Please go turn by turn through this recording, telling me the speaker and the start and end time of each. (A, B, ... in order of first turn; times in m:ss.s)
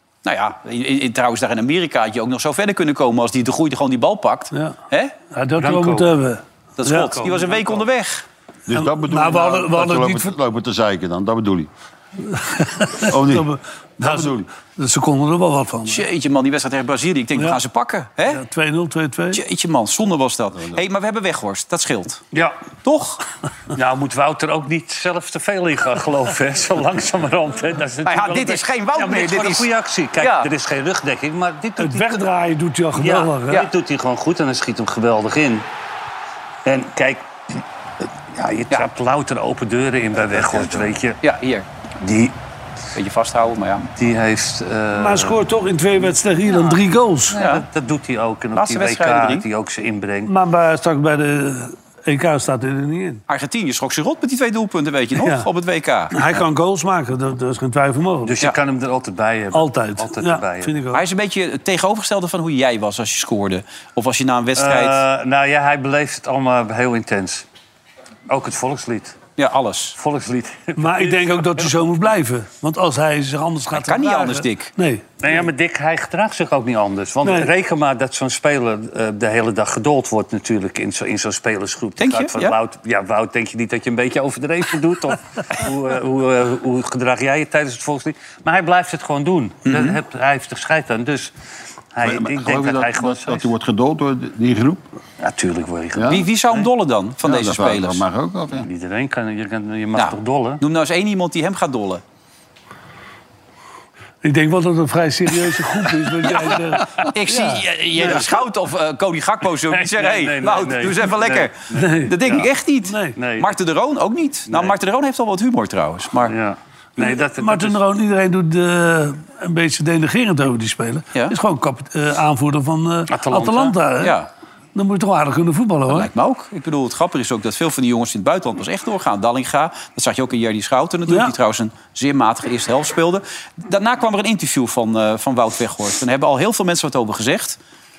0:00.2-0:05.1 A
0:05.3-0:07.4 B
0:05.6-0:06.1 C
0:06.8-0:08.2 A
0:08.7-0:11.7 D
0:08.7-0:10.4 B
0:12.3-0:16.0 B
0:13.1-0:14.5 D
0:15.9-0:18.4 A
0:17.4-0:17.6 B
0:18.3-0:19.4 B
0:19.3-0:22.2 A
0:22.8-0:23.2 A
0:23.7-0:32.2 C
0:28.0-0:30.5 A
0:31.8-0:33.6 B
0:33.0-0:35.6 C
0:36.6-0:37.6 C
0:38.3-0:41.2 C
0:41.2-0:41.7 A
0:42.0-0:42.4 C
0:43.0-0:43.9 A
0:44.0-0:45.4 C
0:44.9-0:47.4 B
0:47.3-0:50.3 C
0:47.3-0:47.6 A
0:48.5-0:49.5 A
0:50.2-0:53.2 B
0:53.3-0:56.4 A
0:55.2-0:55.5 B
0:56.1-0:58.4 B
0:58.2-1:00.8 C
0:59.5-1:01.0 B
1:00.9-1:05.0 A
1:04.6-1:07.4 C
1:08.3-1:09.2 C
1:09.4-1:10.0 A
1:10.0-1:11.7 C
1:10.8-1:15.4 B
1:13.7-1:14.7 A
1:15.2-1:31.3 C
1:17.2-1:17.5 B
1:22.0-1:22.5 A
1:29.6-1:30.0 A
1:31.9-1:33.5 C
1:32.0-1:34.8 D
1:35.2-1:36.6 C
1:35.9-1:36.2 D
1:36.1-1:38.0 A
1:37.2-1:38.6 D
1:38.6-1:40.6 C
1:40.0-1:42.0 A
1:44.2-1:47.6 B
1:47.1-1:56.3 A
1:49.7-1:52.5 C
1:51.8-1:52.1 B
1:52.8-1:53.2 B
1:53.2-1:53.5 C
1:54.5-1:54.8 C
1:56.2-1:57.8 C
1:57.0-2:04.2 B
2:03.1-2:03.8 C
2:04.0-2:04.3 A
2:04.7-2:06.1 B
2:05.9-2:17.6 A
2:11.1-2:11.3 B